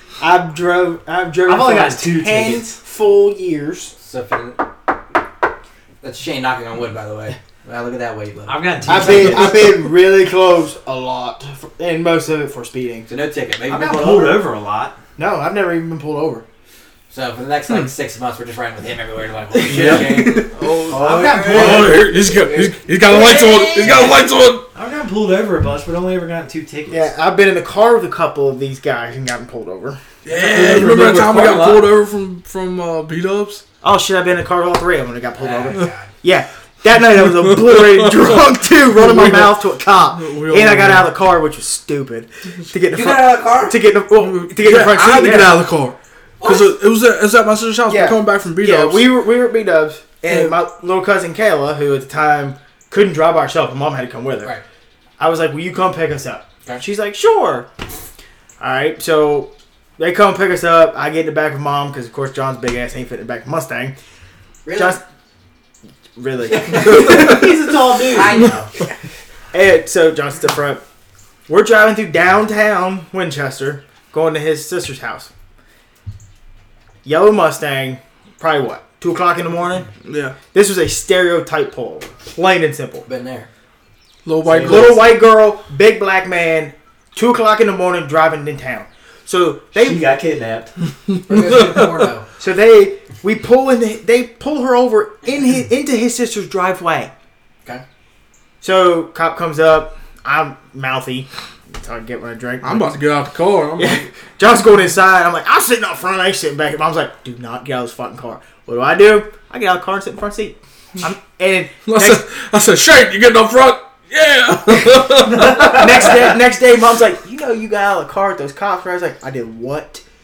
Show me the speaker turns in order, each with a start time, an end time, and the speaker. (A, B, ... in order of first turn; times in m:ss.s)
0:00.2-0:03.9 A
0:01.4-0:02.7 B
0:04.0-0:04.6 C
0:06.0-0:09.4 C
0:08.5-0:09.7 B
0:08.8-0:13.1 A
0:13.1-0:14.4 C
0:13.7-0:15.0 B
0:15.2-0:16.4 A
0:17.1-0:24.2 C
0:19.6-0:24.7 D
0:19.7-0:20.1 B
0:20.8-0:22.0 B
0:24.7-0:27.1 B
0:26.9-0:30.0 A
0:30.2-0:33.6 D
0:30.3-0:31.9 B
0:33.8-0:45.6 A
0:35.4-0:36.1 C
0:37.2-0:41.1 D
0:42.9-0:43.8 C
0:44.2-0:49.2 D
0:46.4-0:46.7 C
0:47.9-0:54.5 A
0:50.3-0:50.5 D
0:55.2-0:57.7 A
0:58.6-1:04.0 A
1:04.6-1:05.0 C
1:04.7-1:05.0 A
1:06.2-1:07.4 A
1:06.5-1:07.4 C
1:06.8-1:08.5 B
1:08.1-1:08.7 C
1:09.5-1:10.8 A
1:11.5-1:15.3 A
1:17.0-1:19.9 A
1:20.0-1:20.4 D
1:20.5-1:23.0 A
1:23.0-1:23.5 C
1:24.2-1:25.0 D
1:24.5-1:30.0 A
1:24.6-1:24.8 B
1:29.7-1:30.7 B
1:31.3-1:32.3 C
1:31.3-1:31.9 D
1:32.4-1:37.1 A
1:38.6-1:43.0 A
1:42.6-1:44.1 D
1:43.8-1:52.2 A
1:51.8-1:56.2 D
1:55.3-1:55.8 B
1:55.4-2:00.0 A